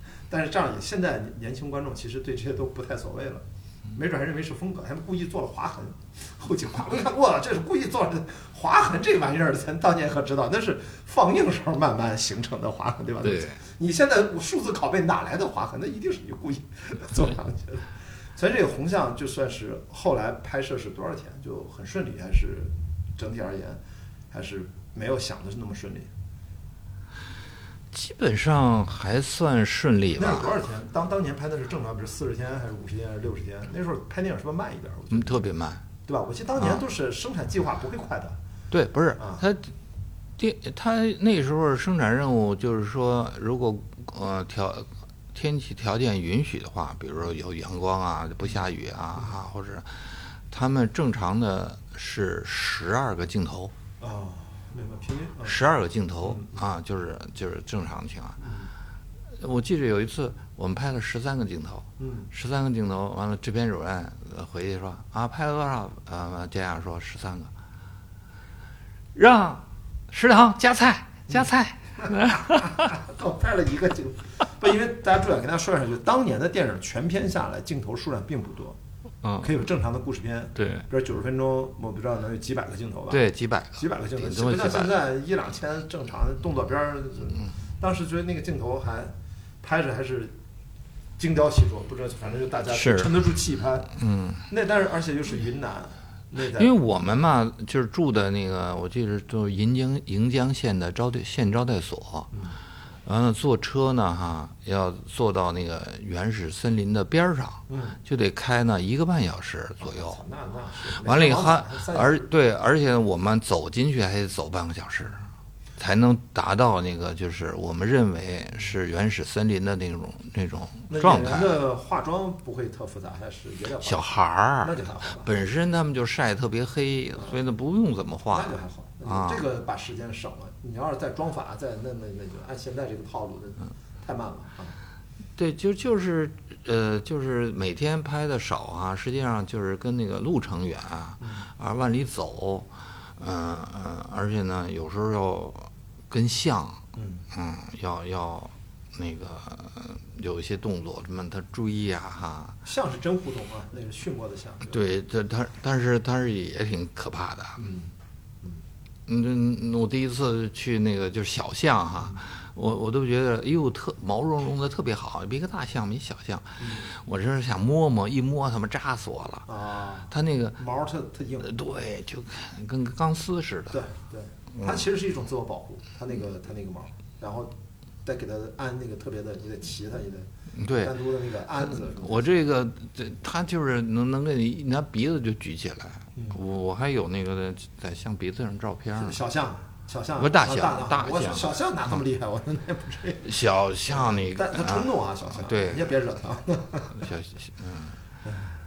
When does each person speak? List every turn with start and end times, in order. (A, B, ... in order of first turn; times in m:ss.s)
0:00.3-0:23.8 A
0:13.2-0:13.6 B
0:24.3-0:26.1 A
0:27.9-0:30.5 B
0:30.2-0:35.5 A
0:35.1-0:35.8 B
0:36.1-0:38.4 A
0:38.7-0:39.7 B
0:39.2-0:39.4 A
0:40.4-0:53.7 B
0:54.0-0:55.6 A
0:55.4-0:58.4 B
0:56.2-0:56.6 A
0:58.4-0:58.7 A
0:59.4-1:07.5 B
1:02.0-1:02.3 A
1:09.2-1:12.9 B
1:12.0-1:18.8 A
1:19.2-1:19.5 B
1:19.4-1:23.2 A
1:20.6-1:20.9 B
1:23.1-1:25.0 B
1:23.8-1:30.4 A
1:31.2-1:34.0 A
1:32.7-1:33.1 B
1:34.0-1:34.4 B
1:34.5-1:36.7 A
1:36.5-1:42.3 B
1:43.0-1:50.2 B
1:47.7-1:48.0 A
1:49.8-1:52.3 A
1:51.0-1:55.2 B
1:55.8-2:01.6 B
2:00.9-2:05.3 A
2:03.8-2:08.5 B
2:08.3-2:14.8 A
2:09.1-2:09.4 B
2:15.4-2:32.6 B
2:21.2-2:21.5 A
2:27.0-2:27.2 A
2:32.6-2:34.8 A
2:34.7-2:37.6 B
2:37.6-2:37.9 A
2:39.1-2:49.5 B
2:46.6-2:46.9 A
2:49.5-2:51.5 A
2:50.1-2:50.6 B
2:51.4-2:53.8 B
2:53.7-2:57.5 A
2:58.0-3:02.4 A
3:00.6-3:00.9 B
3:01.6-3:09.2 B
3:09.0-3:13.3 A
3:10.2-3:11.6 B
3:13.2-3:15.9 B
3:13.9-3:17.0 A
3:16.9-3:18.0 B
3:18.3-3:18.5 A